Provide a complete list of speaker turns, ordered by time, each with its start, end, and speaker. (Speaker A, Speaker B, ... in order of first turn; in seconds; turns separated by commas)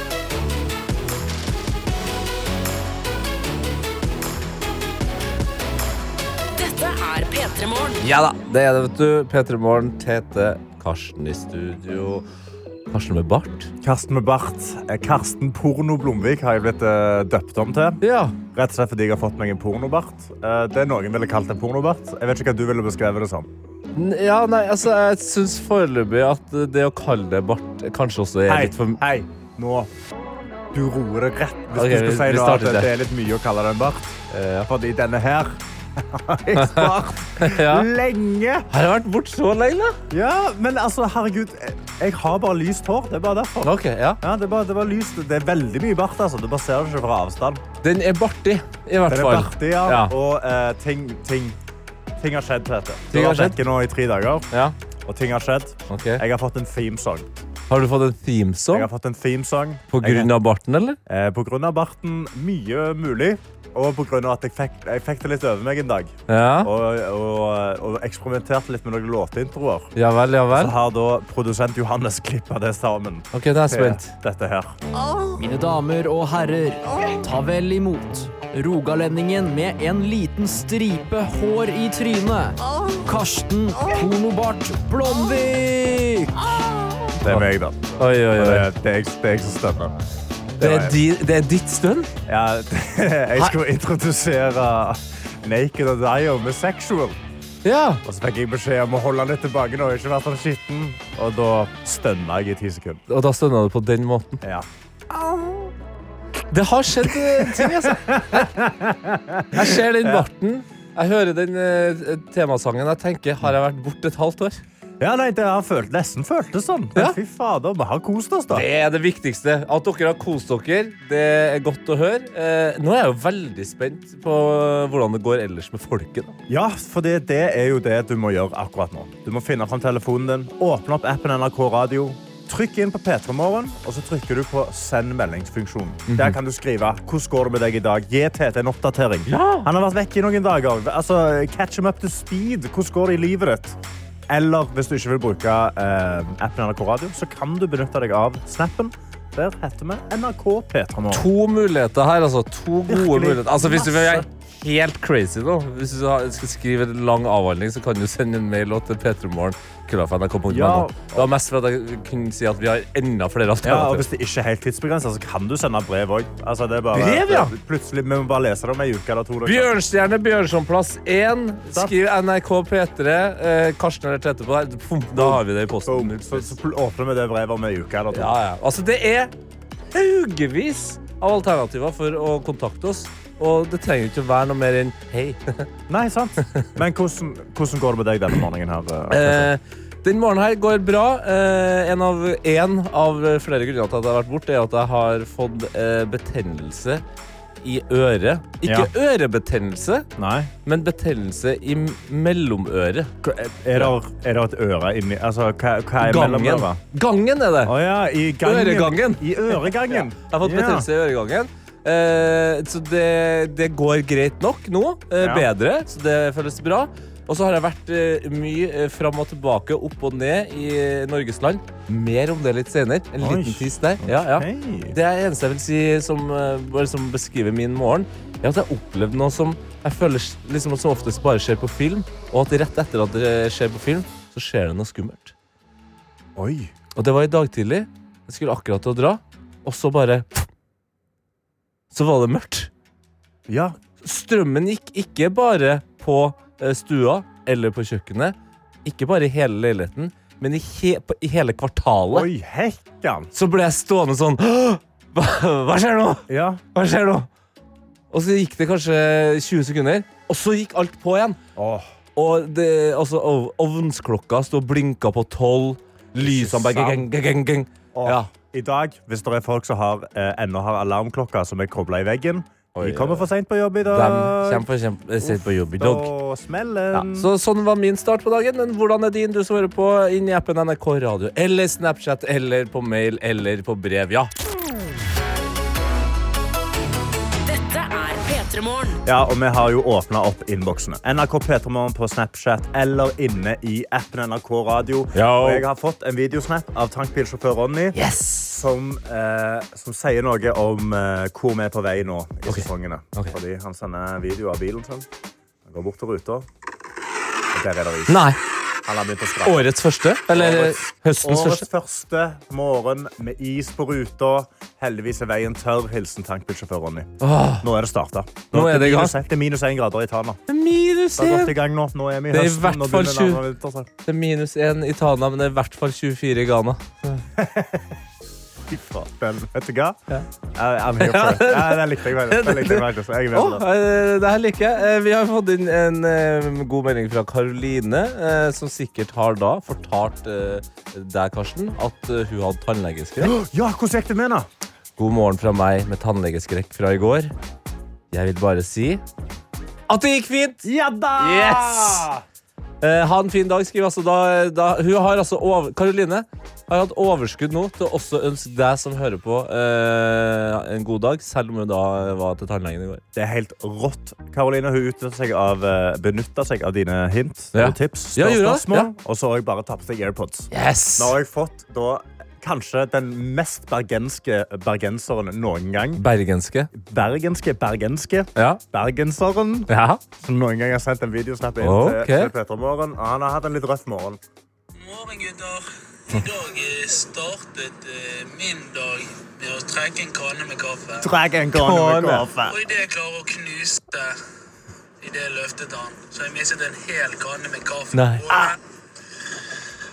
Speaker A: 6.6-8.0, Speaker B: 8.0-12.2, Speaker B: 12.9-13.7, Speaker C: 13.8-18.0, Speaker B: 18.0-18.4, Speaker C: 18.5-23.5, Speaker B: 23.9-29.0, Speaker C: 28.5-29.9, Speaker C: 30.7-38.7, Speaker B: 31.7-32.9, Speaker B: 36.6-37.9, Speaker B: 38.7-40.0, Speaker C: 40.1-47.6, Speaker B: 43.6-44.2, Speaker B: 47.8-50.1, Speaker C: 49.1-51.6, Speaker C: 52.2-54.5, Speaker B: 53.1-53.6, Speaker C: 55.1-57.3, Speaker B: 55.9-56.2, Speaker B: 57.7-58.9, Speaker C: 58.7-60.3, Speaker B: 59.9-61.0, Speaker C: 61.1-69.9, Speaker B: 66.3-66.7, Speaker B: 70.0-70.8, Speaker C: 70.5-74.8, Speaker B: 73.3-74.1, Speaker D: 75.4-86.6, Speaker C: 87.2-89.9, Speaker B: 88.0-88.7, Speaker C: 90.6-91.0, Speaker B: 90.6-92.1, Speaker C: 92.3-97.2, Speaker B: 97.6-98.0, Speaker C: 98.0-103.0, Speaker B: 103.1-104.4, Speaker C: 104.4-105.7, Speaker B: 106.5-108.5, Speaker C: 107.0-110.3, Speaker B: 109.5-114.6, Speaker C: 115.0-118.7, Speaker B: 118.5-126.4, Speaker C: 126.5-143.8, Speaker B: 136.1-136.4, Speaker B: 139.3-139.7, Speaker C: 144.3-151.3, Speaker B: 151.1-164.1, Speaker C: 152.9-154.3, Speaker C: 160.5-161.3, Speaker C: 163.6-169.7, Speaker B: 166.9-167.5, Speaker B: 169.4-176.5, Speaker C: 175.1-178.4, Speaker B: 178.1-179.3, Speaker B: 179.9-185.7, Speaker C: 185.9-189.5, Speaker B: 189.1-197.0, Speaker B: 197.6-200.1, Speaker C: 198.6-198.9, Speaker C: 200.2-200.5, Speaker B: 200.7-203.1, Speaker C: 203.2-206.8, Speaker B: 206.0-207.8, Speaker C: 207.6-210.9, Speaker B: 208.4-235.3, Speaker C: 215.2-215.5, Speaker C: 223.2-225.0, Speaker C: 236.4-236.7, Speaker B: 237.0-240.5, Speaker B: 241.9-242.7, Speaker C: 243.5-243.8, Speaker B: 244.0-252.3, Speaker C: 252.1-253.3, Speaker B: 253.3-257.3, Speaker C: 256.3-256.6, Speaker B: 258.1-261.4, Speaker C: 261.6-261.9, Speaker B: 262.1-268.3, Speaker C: 266.2-267.1, Speaker C: 267.9-274.7, Speaker B: 272.8-273.3, Speaker B: 273.9-276.1, Speaker C: 275.2-277.3, Speaker B: 276.9-284.3, Speaker A: 287.4-289.0, Speaker C: 289.1-298.0, Speaker B: 295.1-295.6, Speaker B: 297.9-298.6, Speaker C: 298.5-305.1, Speaker B: 302.5-303.3, Speaker C: 305.7-306.5, Speaker C: 307.5-308.2, Speaker B: 308.1-308.4, Speaker C: 308.9-309.7, Speaker B: 309.4-311.7, Speaker C: 310.3-320.4, Speaker B: 317.2-317.6, Speaker B: 318.5-319.2, Speaker B: 320.5-321.6, Speaker C: 321.2-323.9, Speaker B: 322.3-323.4, Speaker B: 324.1-327.2, Speaker C: 327.4-327.9, Speaker C: 328.7-330.0, Speaker C: 330.5-333.6, Speaker B: 331.0-343.3, Speaker C: 343.2-344.5, Speaker B: 345.0-347.3, Speaker B: 348.1-349.0, Speaker B: 349.9-352.1, Speaker C: 350.6-352.2, Speaker B: 352.8-363.0, Speaker C: 363.1-376.0, Speaker B: 367.6-368.9, Speaker B: 370.5-371.1, Speaker B: 376.0-376.7, Speaker C: 376.8-384.2, Speaker B: 378.4-378.6, Speaker B: 379.7-380.0, Speaker B: 381.6-382.3, Speaker E: 384.8-391.1, Speaker C: 391.0-392.6, Speaker B: 391.6-392.3, Speaker E: 392.5-394.2, Speaker E: 395.0-398.6, Speaker B: 397.9-398.3